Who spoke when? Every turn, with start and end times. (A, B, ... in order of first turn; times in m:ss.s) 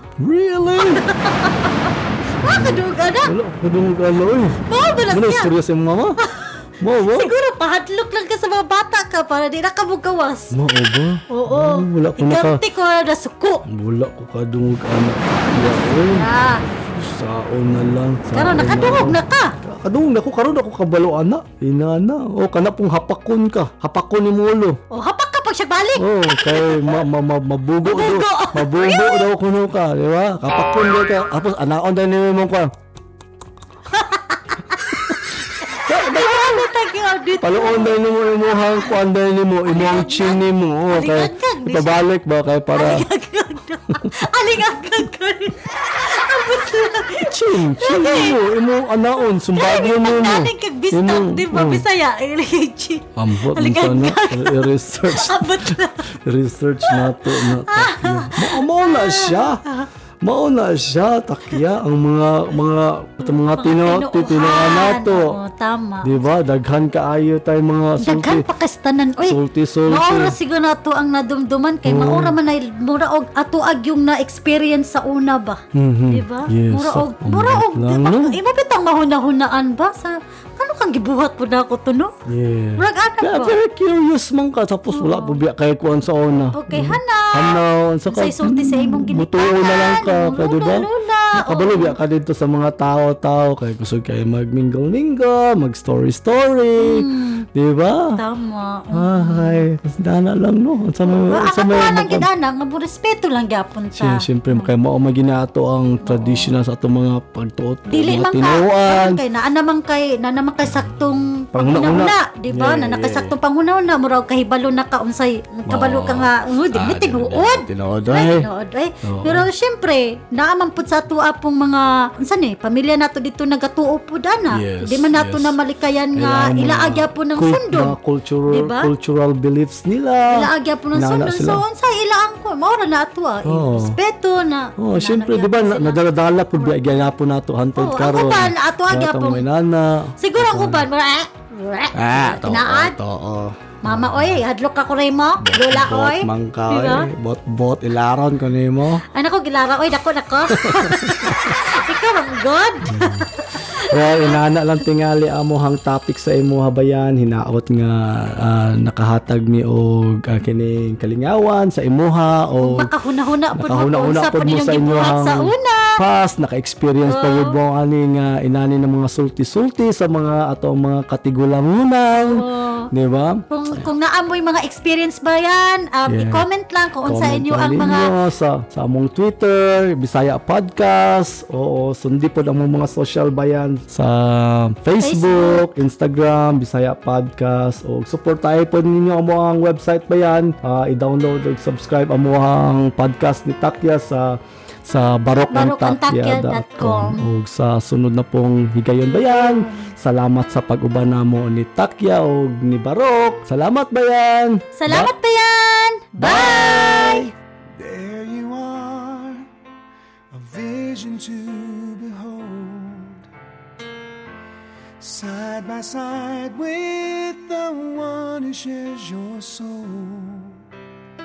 0:00.2-0:01.1 A
0:00.8-0:03.3 B
0:02.4-0:06.2 A
0:04.6-0:05.5 B
0:06.2-0:10.6 B
0:06.8-0:07.3 A
0:10.5-0:12.6 A
0:11.3-0:13.6 B
0:13.6-0:24.8 A
0:15.5-0:16.6 B
0:18.3-0:19.5 B
0:24.9-0:27.0 B
0:26.0-0:32.7 A
0:27.8-0:29.2 B
0:33.9-0:35.0 B
0:35.6-0:38.0 B
0:35.7-0:36.7 A
0:37.4-0:43.1 A
0:39.7-0:42.0 B
0:42.7-0:48.4 B
0:47.1-0:51.9 A
0:49.5-0:56.1 B
0:53.2-0:59.6 A
0:56.8-0:59.9 B
1:00.2-1:05.4 A
1:03.2-1:06.1 B
1:06.0-1:08.4 A
1:08.0-1:22.1 B
1:09.2-1:10.4 A
1:11.8-1:12.4 A
1:15.7-1:18.4 A
1:22.2-1:38.2 A
1:22.8-1:23.6 B
1:24.9-1:25.4 B
1:26.5-1:32.0 B
1:36.8-1:37.4 B
1:38.2-1:39.6 B
1:38.9-1:42.3 A
1:41.0-1:44.7 B
1:43.9-1:49.2 A
1:46.0-1:46.5 B
1:47.9-2:07.9 B
1:51.5-1:53.3 A
1:55.7-1:58.5 A
1:59.0-1:59.5 A
2:04.5-2:05.6 A
2:06.1-2:11.6 A
2:08.5-2:08.9 B
2:10.3-2:16.0 B
2:13.4-2:14.0 A
2:14.8-2:20.9 A
2:17.8-2:19.4 B
2:20.2-2:23.0 B
2:21.9-2:24.4 A
2:23.8-2:27.1 B
2:25.4-2:29.0 A
2:29.1-2:34.4 B
2:30.6-2:31.6 A
2:32.8-2:42.9 A
2:42.6-2:46.0 B
2:43.5-2:53.4 A
2:47.1-2:47.6 B
2:52.2-2:52.9 B
2:53.5-2:58.1 B
2:56.1-2:56.4 A
2:57.0-3:25.1 A
3:05.0-3:05.7 B
3:15.5-3:17.2 B
3:19.5-3:19.9 B
3:24.8-3:27.3 B
3:26.2-3:27.3 A
3:27.8-3:29.5 C
3:30.3-3:33.3 C
3:35.0-3:40.6 C